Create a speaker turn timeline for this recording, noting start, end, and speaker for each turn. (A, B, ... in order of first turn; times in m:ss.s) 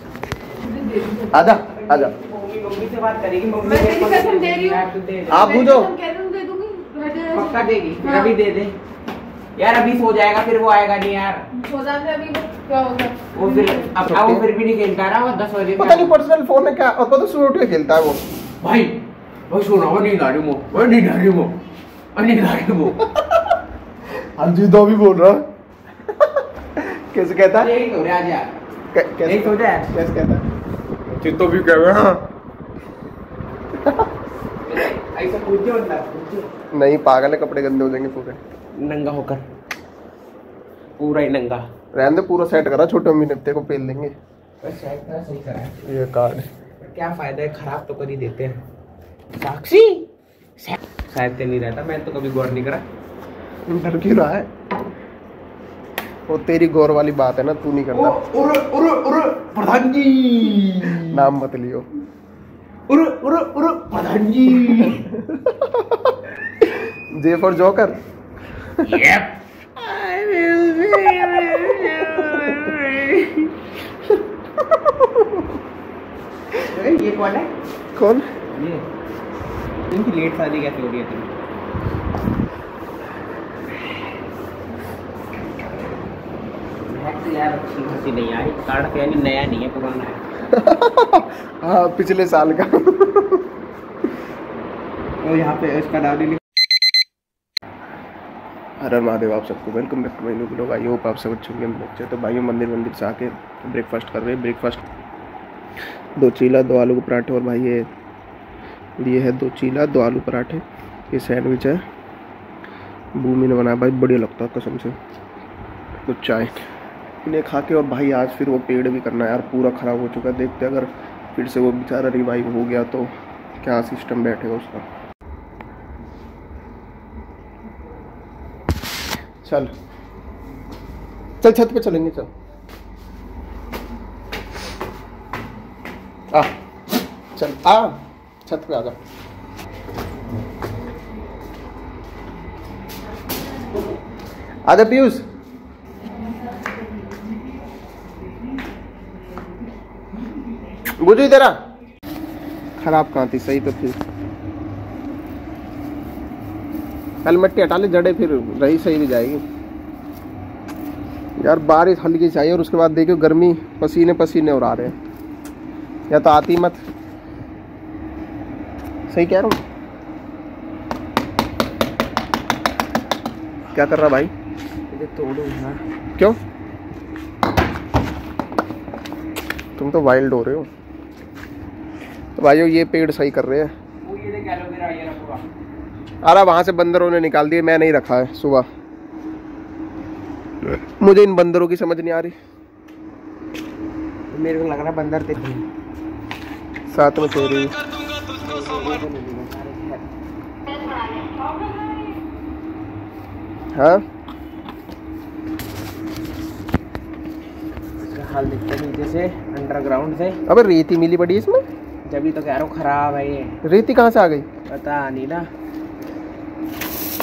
0:00.7-0:05.8 A
0:01.3-0:02.1 B
0:05.3-0:06.0 B
0:05.7-0:07.3 C
0:07.1-0:08.8 A
0:09.6-0:11.6 A
0:11.6-0:13.3 C
0:13.2-0:16.2 A
0:14.0-0:14.4 B
0:15.8-0:18.2 B
0:18.6-0:21.6 A
0:22.1-0:23.0 A
0:24.4-0:25.4 B
0:26.8-0:27.7 B
0:27.5-0:28.6 A
0:28.9-0:30.4 B
0:29.2-0:29.9 A
0:31.1-0:32.3 A
0:34.6-0:36.5 A
0:36.7-0:38.4 B
0:38.8-0:39.4 A
0:41.0-0:41.7 A
0:41.9-0:44.1 B
0:44.6-0:45.8 A
0:45.8-0:46.5 B
0:46.8-0:48.6 A
0:49.3-0:50.1 A
0:50.6-0:52.8 A
0:53.7-0:54.5 B
0:56.3-0:58.2 B
0:57.9-1:01.3 A
1:01.1-1:01.9 B
1:02.9-1:05.1 A
1:04.7-1:06.2 B
1:07.1-1:08.0 B
1:08.8-1:13.7 A
1:14.7-1:15.4 B
1:16.6-1:17.5 A
1:18.0-1:18.3 B
1:18.5-1:18.8 A
1:19.9-1:21.3 A
1:26.9-1:30.2 A
1:30.5-1:33.4 B
1:35.2-1:36.4 A
1:38.8-1:44.8 B
1:46.2-1:47.9 B
1:49.0-1:51.8 B
1:53.2-1:55.0 B
1:56.0-1:56.6 B
1:57.2-2:04.8 B
2:09.4-2:09.7 B
2:11.4-2:12.3 B
2:17.3-2:19.0 B
2:24.7-2:25.2 B
2:31.0-2:31.6 B
2:32.8-2:34.0 B
2:37.2-2:39.4 B
2:41.4-2:44.9 B
2:46.1-2:46.8 B
2:49.1-2:49.6 B
2:53.7-2:54.3 B
2:54.9-2:55.8 A
2:59.8-3:00.7 B
3:02.4-3:03.7 B
3:04.0-3:05.4 A
3:06.2-3:08.6 B
3:11.0-3:12.3 B
3:14.3-3:15.6 A
3:16.9-3:17.7 B
3:18.4-3:20.1 A
3:23.7-3:24.0 B
3:28.0-3:30.4 A
3:30.5-3:31.6 B
3:32.1-3:33.6 A
3:33.6-3:34.4 B
3:34.7-3:35.4 A